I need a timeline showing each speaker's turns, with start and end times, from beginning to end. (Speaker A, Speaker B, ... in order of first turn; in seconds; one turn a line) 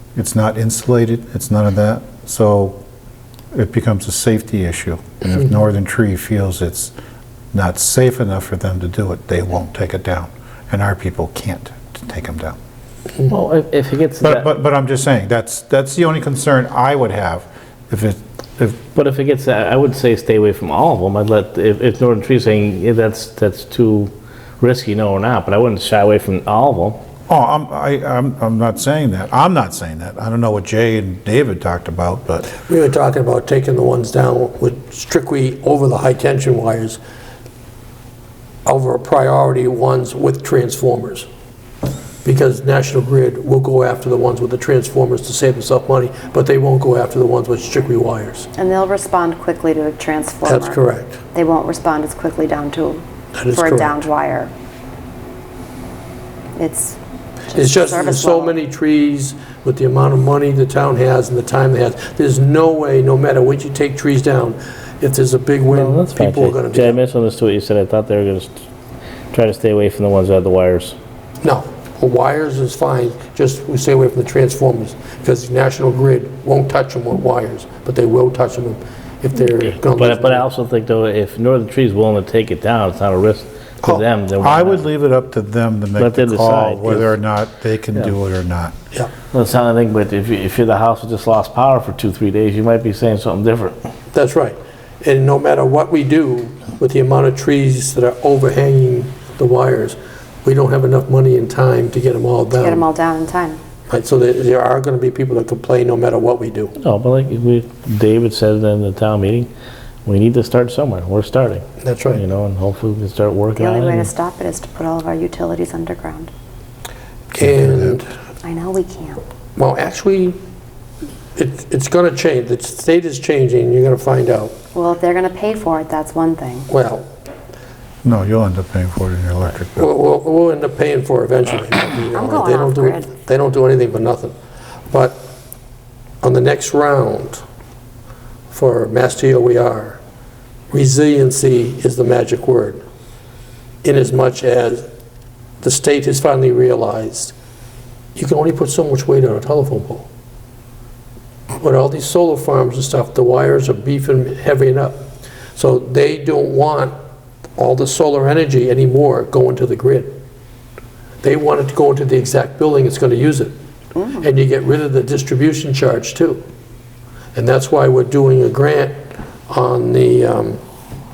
Speaker A: 0.1-2.8
Speaker A: 3.5-6.9
Speaker A: 7.5-12.6
Speaker B: 13.3-14.4
Speaker A: 14.2-18.8
Speaker B: 18.9-27.0
Speaker A: 27.3-32.5
Speaker C: 32.4-37.0
Speaker C: 38.6-41.3
Speaker C: 42.2-48.5
Speaker D: 48.5-54.5
Speaker C: 50.4-51.2
Speaker C: 53.3-54.0
Speaker D: 56.5-58.5
Speaker C: 57.5-67.0
Speaker B: 65.7-68.6
Speaker B: 69.3-71.0
Speaker C: 71.4-80.5
Speaker B: 79.8-84.8
Speaker A: 84.4-88.7
Speaker B: 86.0-87.2
Speaker B: 89.3-93.8
Speaker C: 94.1-102.9
Speaker D: 102.6-103.6
Speaker C: 103.9-106.7
Speaker B: 106.8-109.5
Speaker B: 110.0-111.6
Speaker C: 111.8-112.2
Speaker B: 112.2-114.1
Speaker D: 113.5-116.3
Speaker C: 117.3-118.1
Speaker A: 117.3-118.0
Speaker D: 118.4-119.2
Speaker C: 119.5-120.3
Speaker C: 121.3-124.6
Speaker D: 124.7-126.7
Speaker C: 126.7-127.0
Speaker A: 128.0-129.9
Speaker C: 129.7-134.3
Speaker D: 132.1-133.2
Speaker C: 134.9-135.3
Speaker C: 136.2-137.4
Speaker C: 138.5-140.0
Speaker C: 140.7-142.8
Speaker C: 143.8-144.9
Speaker C: 145.6-147.3
Speaker C: 148.2-150.1
Speaker C: 151.6-156.9
Speaker C: 157.6-160.2
Speaker C: 161.2-163.5
Speaker D: 163.9-164.3
Speaker C: 164.2-166.4
Speaker C: 167.3-170.6